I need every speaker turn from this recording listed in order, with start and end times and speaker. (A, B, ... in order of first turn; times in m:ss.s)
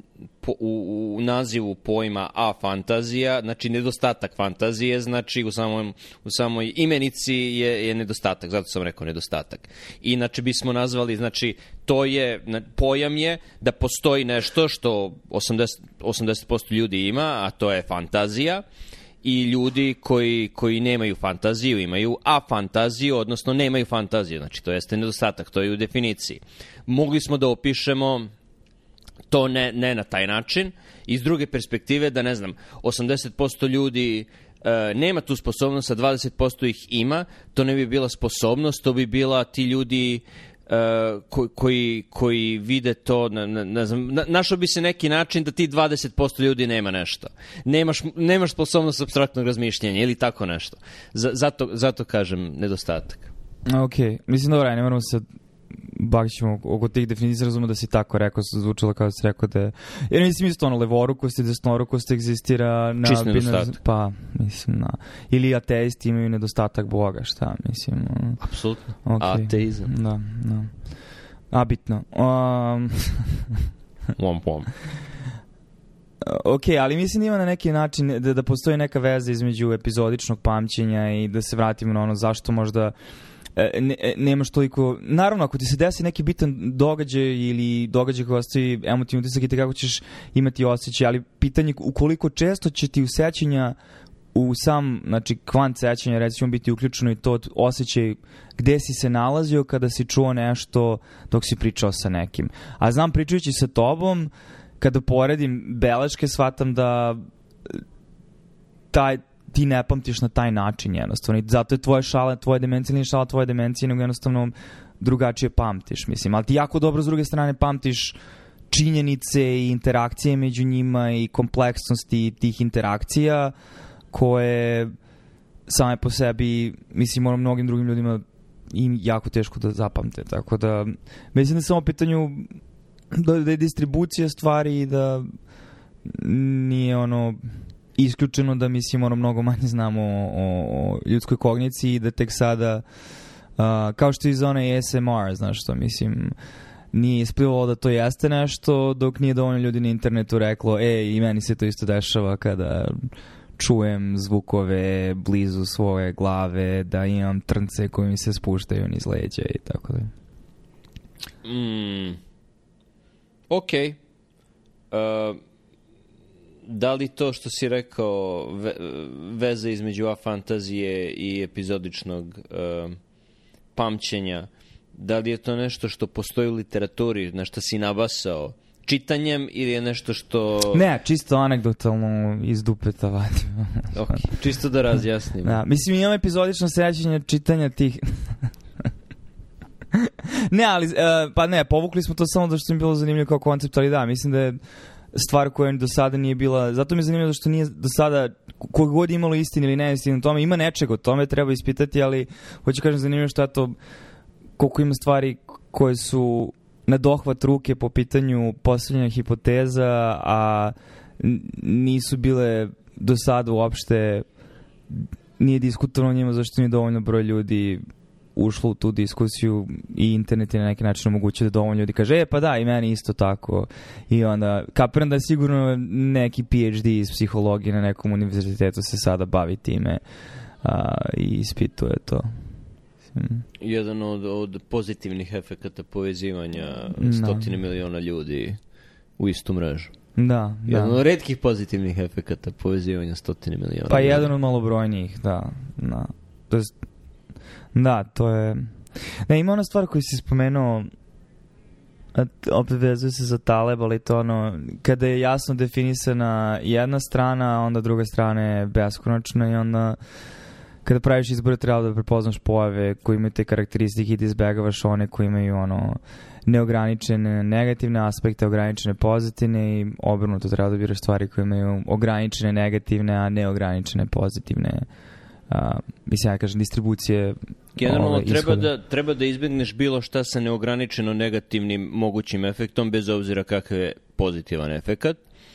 0:00.4-0:18.6 A
0:19.2-0:28.3 A
0:29.3-0:53.3 A
0:53.7-0:55.2 B
0:55.9-1:08.4 B
1:03.0-1:03.8 A
1:08.4-1:09.9 A
1:09.0-1:10.7 B
1:11.5-1:13.3 B
1:14.2-1:14.7 A
1:16.2-1:23.0 B
1:23.6-1:33.8 B
1:34.3-1:47.8 B
1:48.9-1:58.2 B
1:58.7-2:03.5 B
2:04.1-2:04.9 B
2:05.7-2:12.5 B
2:13.1-2:15.3 B
2:16.1-2:17.4 B
2:18.0-2:22.8 B
2:23.6-2:26.4 B
2:26.9-2:33.1 B
2:33.6-2:40.1 B
2:41.4-2:42.2 A
2:43.5-2:44.0 A
2:44.9-2:45.4 A
2:46.7-2:53.0 A
2:53.8-3:00.8 A
3:00.7-3:04.3 B
3:03.9-3:05.6 A
3:05.4-3:08.4 B
3:09.9-3:14.6 B
3:15.1-3:23.8 B
3:24.6-3:34.2 B
3:34.9-3:37.8 B
3:38.4-3:50.0 B
3:50.6-3:52.4 B
3:53.1-3:53.4 B
3:53.6-3:58.6 A
3:57.0-3:57.5 B
3:59.2-3:59.9 A
4:00.2-4:01.0 B
4:00.7-4:04.3 A
4:03.9-4:06.7 B
4:07.7-4:08.7 B
4:09.3-4:10.9 B
4:12.2-4:20.0 B
4:20.8-4:34.9 B
4:35.5-4:38.7 B
4:37.8-4:45.2 A